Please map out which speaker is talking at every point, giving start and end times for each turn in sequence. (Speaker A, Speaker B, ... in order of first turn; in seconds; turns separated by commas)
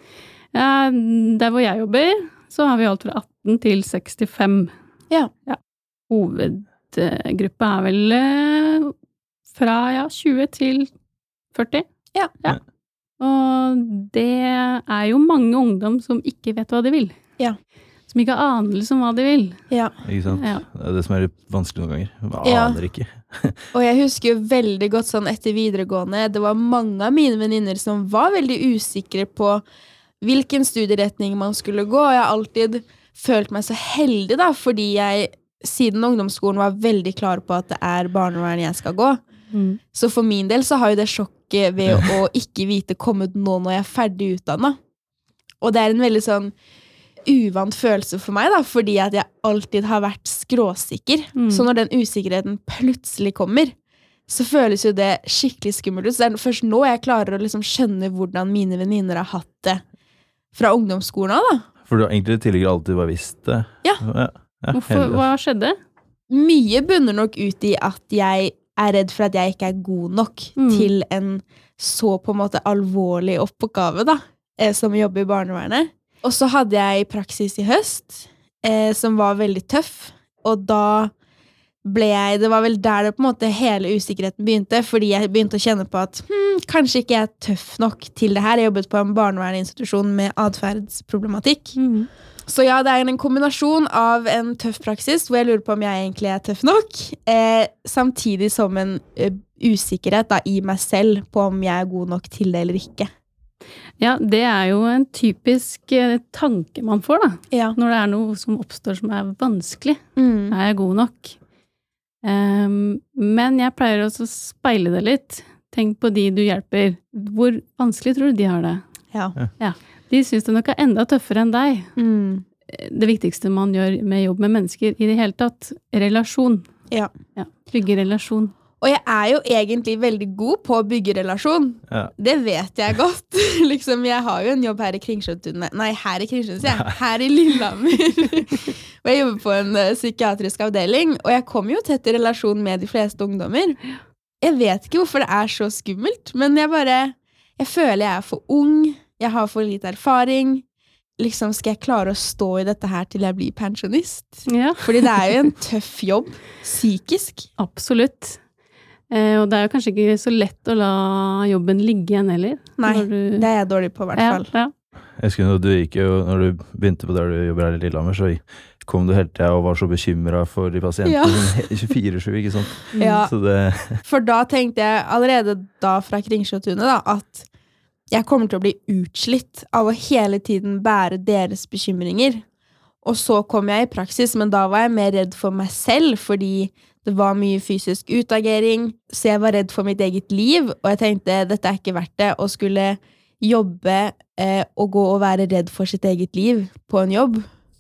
Speaker A: 0.5-4.7, Speaker A: 5.5-8.9, Speaker A: 9.5-10.9, Speaker A: 11.5-11.9, Speaker A: 13.2-17.1, Speaker A: 18.1-19.6, Speaker B: 20.0-23.6, Speaker A: 20.3-20.7, Speaker C: 22.4-22.8, Speaker C: 23.7-29.6, Speaker C: 30.2-39.2, Speaker A: 39.5-39.8, Speaker C: 39.9-44.8, Speaker B: 41.8-42.1, Speaker C: 45.6-46.5, Speaker C: 47.3-53.7, Speaker A: 51.4-51.7, Speaker C: 54.3-59.8, Speaker C: 60.5-61.7, Speaker B: 61.9-65.2, Speaker A: 64.7-65.7, Speaker C: 66.3-81.1, Speaker A: 70.6-70.9, Speaker C: 81.8-91.8, Speaker A: 91.8-92.1, Speaker C: 92.5-103.1, Speaker A: 104.0-111.4, Speaker C: 107.5-107.8, Speaker C: 110.2-110.6, Speaker A: 112.2-118.8, Speaker A: 119.6-121.9, Speaker C: 122.0-122.5, Speaker A: 122.7-126.7, Speaker A: 127.3-128.5, Speaker C: 128.8-143.8, Speaker B: 136.6-136.9, Speaker C: 144.4-150.7, Speaker C: 151.2-157.5, Speaker A: 154.5-155.1, Speaker A: 157.6-158.4, Speaker A: 159.1-163.5, Speaker C: 162.8-164.5, Speaker A: 164.1-164.7, Speaker B: 165.2-174.0, Speaker C: 171.0-171.8, Speaker A: 172.9-173.2, Speaker C: 173.0-173.3, Speaker C: 174.0-177.5, Speaker C: 178.1-182.4, Speaker C: 183.0-197.5